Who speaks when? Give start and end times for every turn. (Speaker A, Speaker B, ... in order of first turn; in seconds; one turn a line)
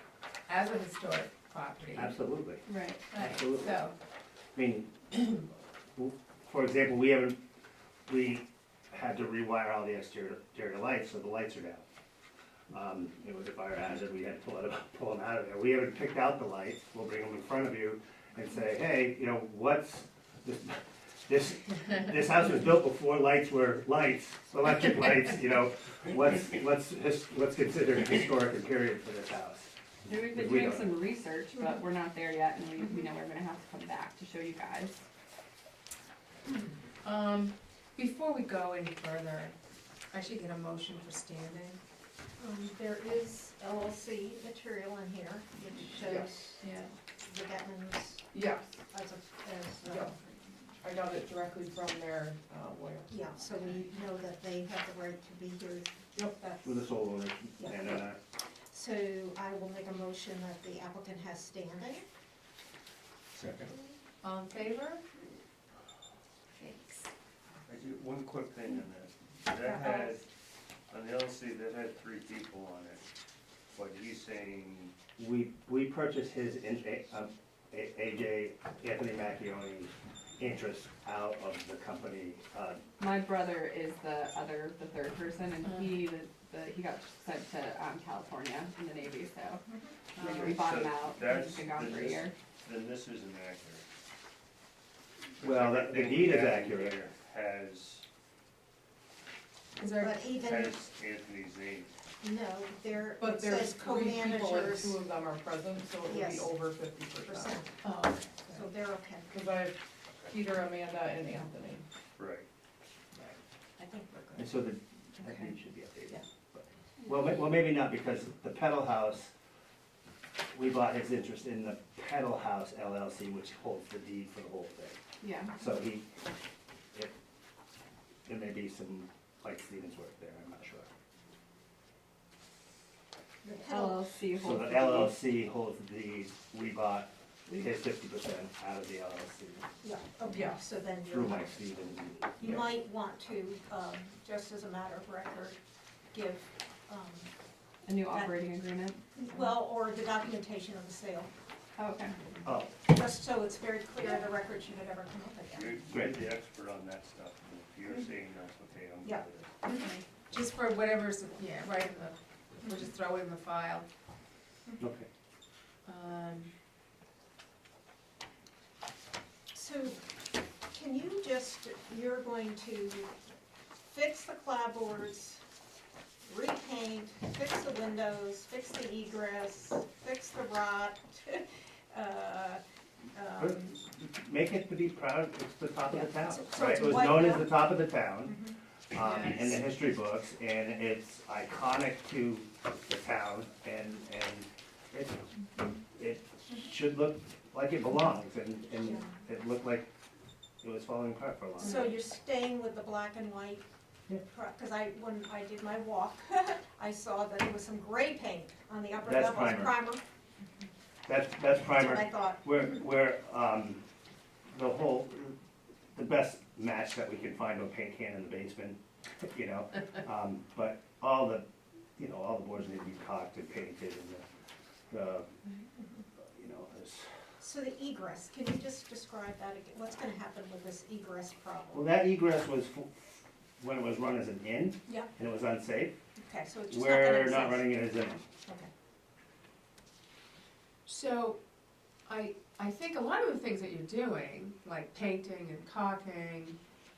Speaker A: 0.5-2.2
Speaker B: 1.9-2.6
Speaker C: 2.7-3.0
Speaker A: 3.1-3.9
Speaker B: 3.2-3.8
Speaker B: 4.5-5.5
Speaker B: 6.0-7.4
Speaker B: 8.1-11.8
Speaker B: 12.7-30.9
Speaker C: 30.1-35.0
Speaker A: 37.0-39.5
Speaker A: 40.1-41.8
Speaker D: 42.4-46.6
Speaker E: 46.0-46.8
Speaker D: 47.2-48.2
Speaker E: 48.3-48.8
Speaker D: 48.9-50.2
Speaker E: 49.8-50.1
Speaker E: 50.8-53.8
Speaker D: 53.1-56.8
Speaker B: 56.6-58.2
Speaker D: 57.6-58.0
Speaker D: 58.7-62.0
Speaker F: 63.3-63.7
Speaker A: 64.2-65.0
Speaker A: 66.5-67.1
Speaker F: 67.7-70.3
Speaker F: 70.9-73.0
Speaker F: 73.7-74.9
Speaker B: 75.2-82.8
Speaker C: 83.0-89.7
Speaker A: 85.6-85.9
Speaker D: 89.7-89.9
Speaker A: 90.2-90.5
Speaker C: 90.2-92.3
Speaker F: 90.2-93.8
Speaker F: 95.4-98.0
Speaker B: 95.4-97.0
Speaker A: 99.8-100.2
Speaker D: 100.0-100.8
Speaker F: 100.3-101.9
Speaker D: 102.2-105.0
Speaker E: 103.2-107.6
Speaker D: 106.0-106.5
Speaker D: 107.2-109.3
Speaker A: 107.8-108.4
Speaker E: 109.3-109.8
Speaker E: 110.3-111.8
Speaker F: 112.2-112.5
Speaker D: 113.8-114.6
Speaker B: 114.4-119.3
Speaker B: 120.5-125.0
Speaker C: 125.2-125.6
Speaker B: 125.6-126.1
Speaker B: 128.3-130.9
Speaker D: 133.4-134.1
Speaker C: 133.6-135.2
Speaker B: 134.4-139.7
Speaker D: 139.8-141.7
Speaker E: 140.3-140.6
Speaker B: 141.1-142.6
Speaker D: 142.3-145.6
Speaker D: 146.1-147.3
Speaker C: 147.8-149.0
Speaker D: 148.1-148.3
Speaker D: 149.2-151.3
Speaker C: 151.8-152.2
Speaker B: 152.4-152.8
Speaker D: 152.8-155.8
Speaker F: 155.5-159.5
Speaker B: 155.9-156.2
Speaker D: 159.0-159.9
Speaker C: 159.7-160.0
Speaker A: 160.3-163.9
Speaker B: 164.8-165.1
Speaker A: 165.9-166.5
Speaker D: 169.5-170.0
Speaker D: 170.7-173.1
Speaker D: 173.9-175.4
Speaker D: 176.2-182.6
Speaker D: 183.2-183.8
Speaker B: 183.4-199.9
Speaker D: 185.9-187.7
Speaker D: 188.3-188.5
Speaker A: 189.0-189.5
Speaker D: 198.8-199.1
Speaker B: 200.6-201.9
Speaker D: 201.6-203.6
Speaker D: 204.3-210.0
Speaker B: 209.0-209.8
Speaker B: 211.1-213.8
Speaker D: 211.7-212.4
Speaker B: 214.5-215.4
Speaker B: 215.9-221.4
Speaker B: 222.0-224.2
Speaker B: 224.9-225.3
Speaker B: 226.3-227.1
Speaker D: 227.4-231.9
Speaker B: 231.7-235.9
Speaker D: 236.2-237.8
Speaker B: 236.7-238.2
Speaker A: 240.9-241.4
Speaker A: 242.1-246.6